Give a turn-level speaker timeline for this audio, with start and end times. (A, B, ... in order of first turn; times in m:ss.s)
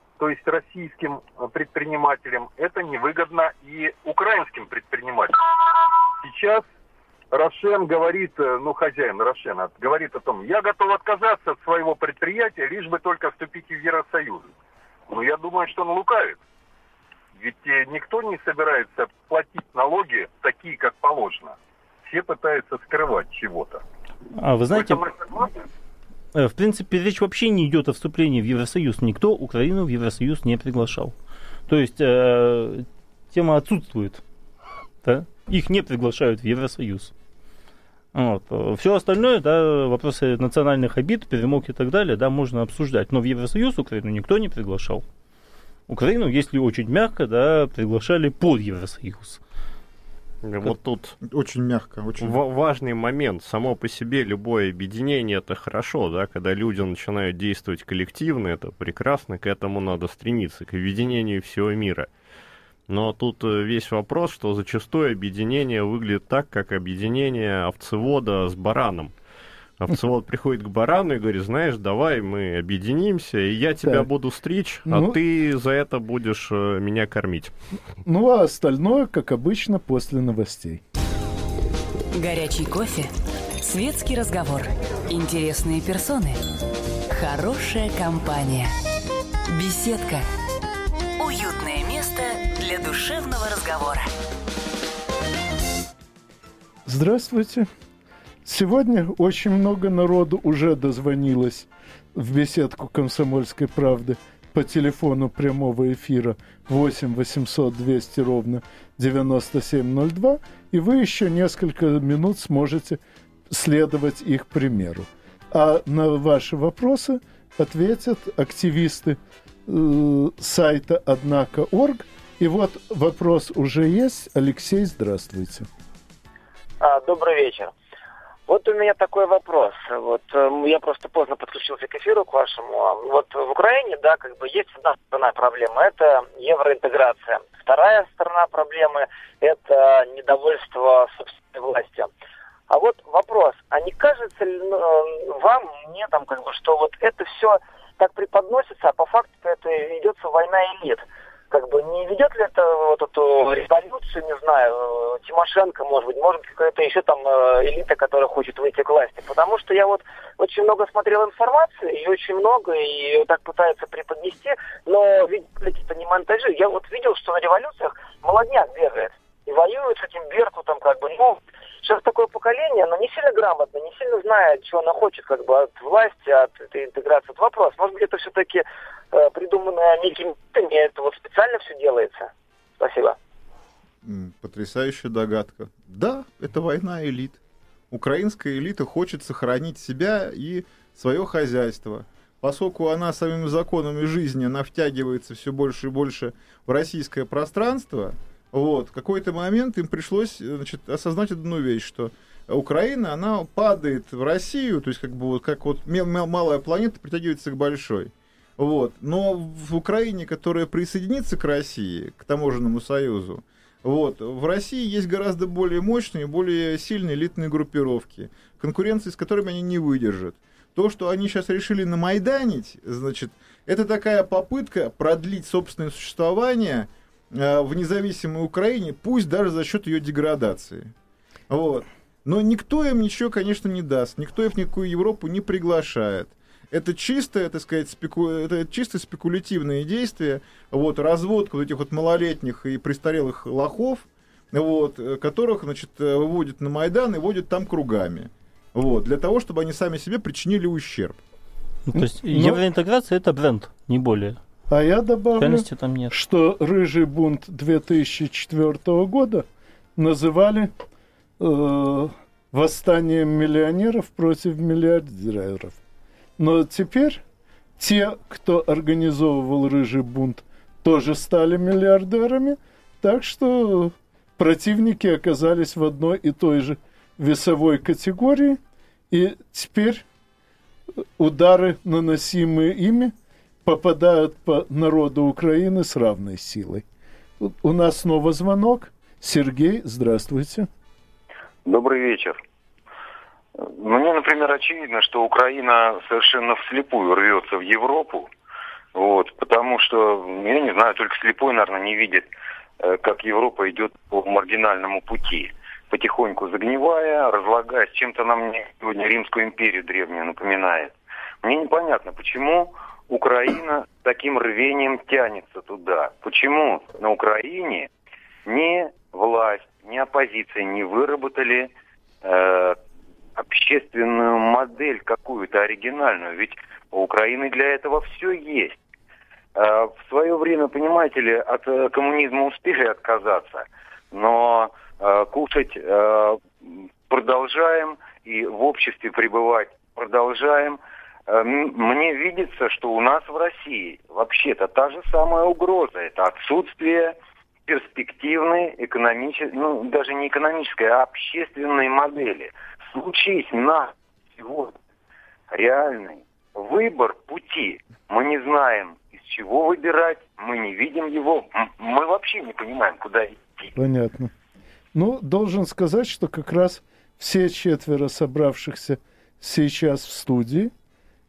0:00.2-0:05.4 A
0:06.2-0:06.6 A
0:07.3-0:14.5 A
0:15.1-0:16.4 A
0:17.4-0:23.8 A
0:24.3-0:25.0 B
0:24.7-0:25.5 A
0:26.3-0:31.1 B
0:31.7-0:34.2 B
0:35.0-0:37.1 B
0:38.1-0:45.0 B
0:45.9-0:49.4 B
0:50.4-0:51.2 C
0:51.2-0:52.4 D
0:52.2-1:02.1 C
1:02.9-1:09.1 C
1:09.8-1:17.5 C
1:13.8-1:14.1 E
1:14.9-1:15.2 E
1:18.0-1:20.8 E
1:22.1-1:26.4 F
1:27.1-1:28.7 F
1:29.5-1:30.3 F
1:31.2-1:34.1 F
1:36.9-1:37.7 E
1:38.4-2:05.7 E
2:06.8-2:07.7 G
2:08.5-2:22.1 G
2:22.7-3:03.2 G
3:04.0-3:07.4 D
3:07.9-3:50.9 D
3:51.5-4:11.2 D
4:11.9-4:14.4 B
4:12.0-4:12.6 E
4:14.7-4:20.7 E
4:15.4-4:16.1 B
4:21.4-4:25.8 E
4:26.4-4:27.2 E
4:27.8-4:40.1 E
4:41.2-4:43.1 E
4:43.6-4:46.8 E
4:47.4-4:50.7 E
4:51.7-4:52.4 H
4:53.6-4:58.3 H
4:59.0-5:02.3 H
5:02.8-5:17.9 H
5:18.5-5:22.8 H
5:23.4-5:28.8 H
5:29.6-5:47.2 H
5:47.7-5:54.8 H
5:55.5-6:03.7 H
6:03.8-6:04.3 E
6:04.9-6:10.7 E